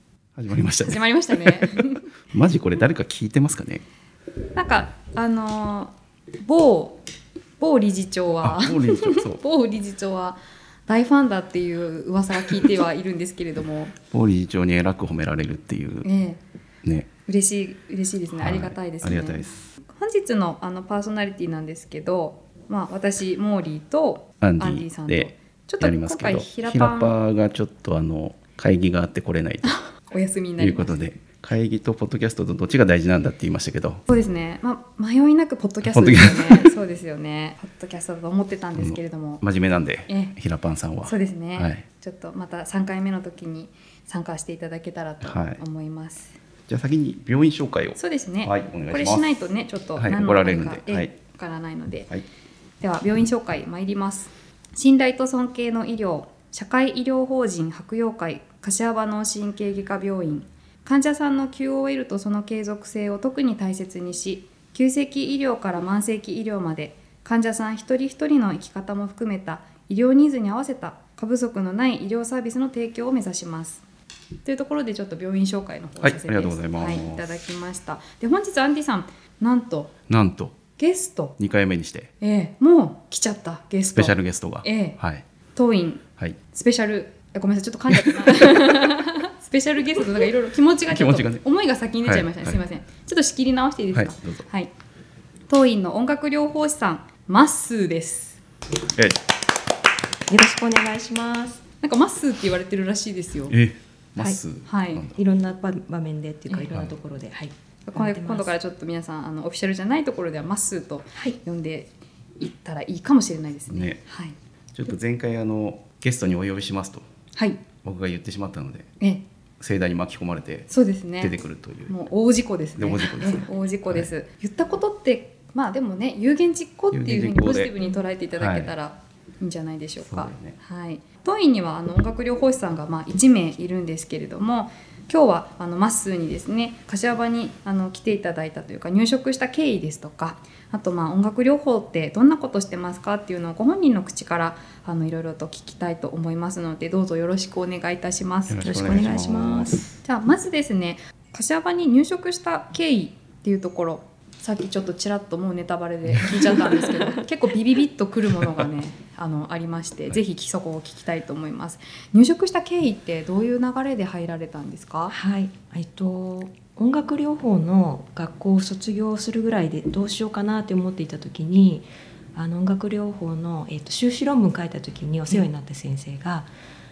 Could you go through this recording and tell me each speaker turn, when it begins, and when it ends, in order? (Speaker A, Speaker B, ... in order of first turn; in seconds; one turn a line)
Speaker A: 0.4-3.9
Speaker B: 0.6-2.1
Speaker B: 4.5-7.0
Speaker B: 7.6-13.9
Speaker A: 8.4-9.4
Speaker A: 14.1-16.1
Speaker B: 16.0-16.4
Speaker A: 16.8-17.1
Speaker B: 17.3-27.1
Speaker A: 18.3-19.7
Speaker A: 24.4-29.8
Speaker B: 29.6-31.1
Speaker A: 30.6-34.0
Speaker B: 34.1-39.4
Speaker A: 35.8-36.7
Speaker A: 38.8-41.8
Speaker B: 40.1-40.4
Speaker B: 41.0-46.4
Speaker A: 45.2-45.6
Speaker A: 46.7-49.4
Speaker B: 48.0-52.1
Speaker A: 50.0-51.1
Speaker B: 52.8-73.8
Speaker B: 74.5-79.9
Speaker A: 76.0-77.4
Speaker A: 80.1-80.6
Speaker B: 80.8-81.4
Speaker A: 81.4-82.1
Speaker B: 82.2-85.0
Speaker A: 83.9-85.2
Speaker B: 85.5-94.7
Speaker A: 90.9-91.4
Speaker A: 92.0-92.6
Speaker A: 93.9-94.4
Speaker B: 95.5-98.4
Speaker A: 98.9-99.2
Speaker C: 100.3-101.6
Speaker B: 101.8-103.5
Speaker A: 103.5-105.2
Speaker B: 104.7-105.0
Speaker C: 105.2-108.5
Speaker B: 107.9-114.4
Speaker A: 113.7-114.0
Speaker A: 114.8-117.0
Speaker B: 117.4-117.6
Speaker A: 117.8-118.9
Speaker A: 119.6-120.7
Speaker B: 120.7-148.9
Speaker A: 121.2-121.9
Speaker A: 122.8-124.1
Speaker A: 126.9-127.7
Speaker A: 128.4-128.7
Speaker A: 130.1-130.6
Speaker A: 148.5-150.0
Speaker C: 148.6-149.8
Speaker B: 150.0-165.2
Speaker C: 156.3-157.2
Speaker C: 165.1-176.5